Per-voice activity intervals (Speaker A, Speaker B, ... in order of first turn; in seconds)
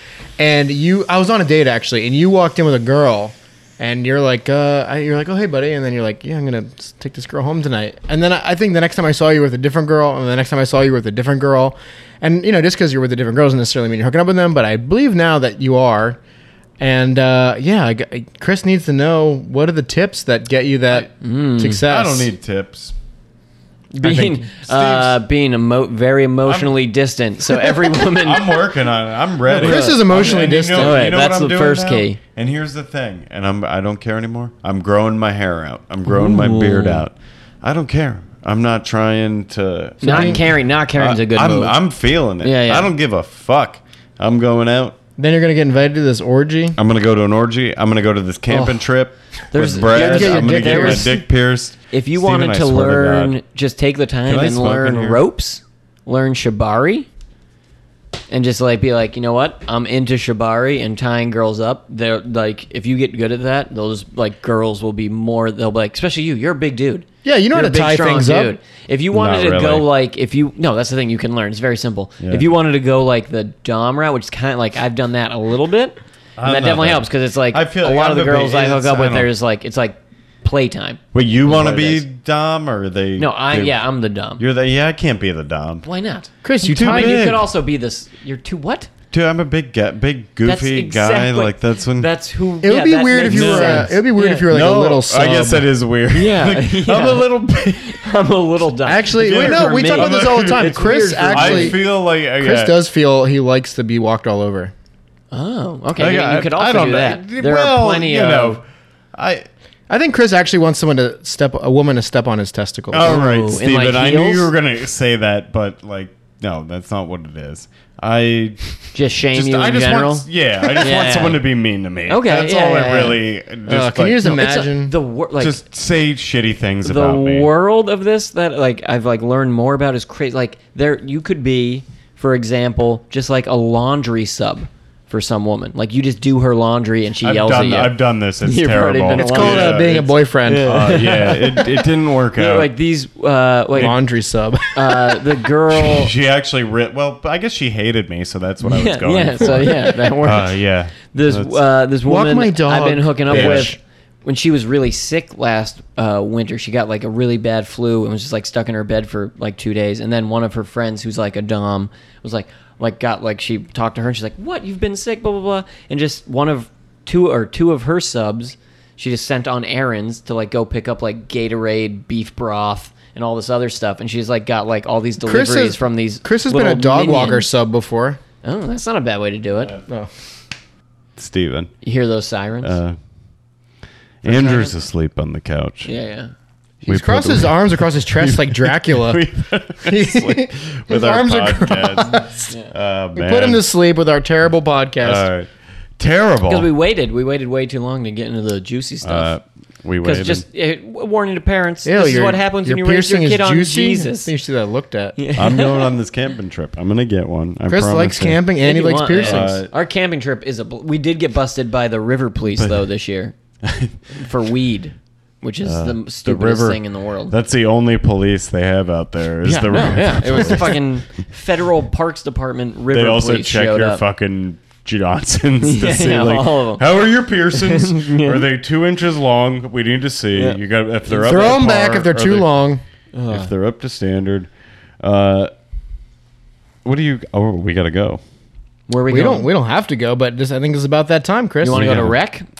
Speaker A: 0.4-16.2, 16.8-22.3, 29.5-31.1, 40.0-40.4, 45.2-46.8, 49.9-51.2, 67.2-68.5, 86.4-87.2, 92.6-95.7, 98.8-101.8, 102.4-104.7, 109.9-113.1, 123.7-124.9, 139.1-141.4, 143.8-145.2, 152.1-153.8, 175.2-178.2, 186.8-189.2, 189.8-192.4, 193.1-195.3, 201.8-205.2, 207.7-209.6, 231.1-232.8, 239.1-242.0
Speaker B: 21.0-21.8, 23.9-28.5, 29.5-32.2, 36.1-37.0, 40.0-41.8, 42.4-42.9, 48.5-48.8, 49.5-51.2, 51.9-57.1, 58.3-82.0, 83.2-84.4, 85.8-88.9, 90.4-94.5, 96.1-101.8, 105.3-108.6, 113.0-114.5, 118.9-121.4, 122.1-123.2, 124.2-125.6, 126.8-139.8, 140.4-141.8, 142.3-144.0, 144.7-146.1, 148.6-150.5, 151.0-177.5, 178.4-179.8, 181.8-182.8, 184.2-184.7, 185.8-186.3, 192.5-192.7, 196.4-199.3, 200.0-204.3, 205.2-205.9, 208.6-213.3, 214.1-217.3, 219.4-224.0, 225.6-226.8, 227.5-228.5, 230.3-231.4, 233.1-233.5, 238.9-239.5, 241.6-242.4
Speaker C: 21.9-22.9, 24.0-25.2, 26.4-26.7, 27.9-44.9, 46.8-53.3, 54.3-55.2, 69.1-69.9, 72.2-72.5, 76.4-79.3, 81.1-83.8, 84.4-85.8, 86.6-87.5, 89.1-92.1, 93.2-98.1, 99.2-100.8, 101.3-102.8, 106.0-108.6, 109.1-109.5, 112.9-118.7, 119.3-124.4, 125.4-127.5, 137.2-142.7, 145.7-151.6, 153.3-153.7, 181.2-181.7, 182.6-182.9, 184.2-185.9, 186.8-193.6, 195.0-195.5, 196.0-196.7, 199.0-200.4, 205.3-208.4, 209.1-209.7, 212.6-212.8, 213.6-214.0, 215.6-220.8, 222.9-232.5, 233.3-234.5, 235.0-235.5, 236.8-238.2, 241.7-242.2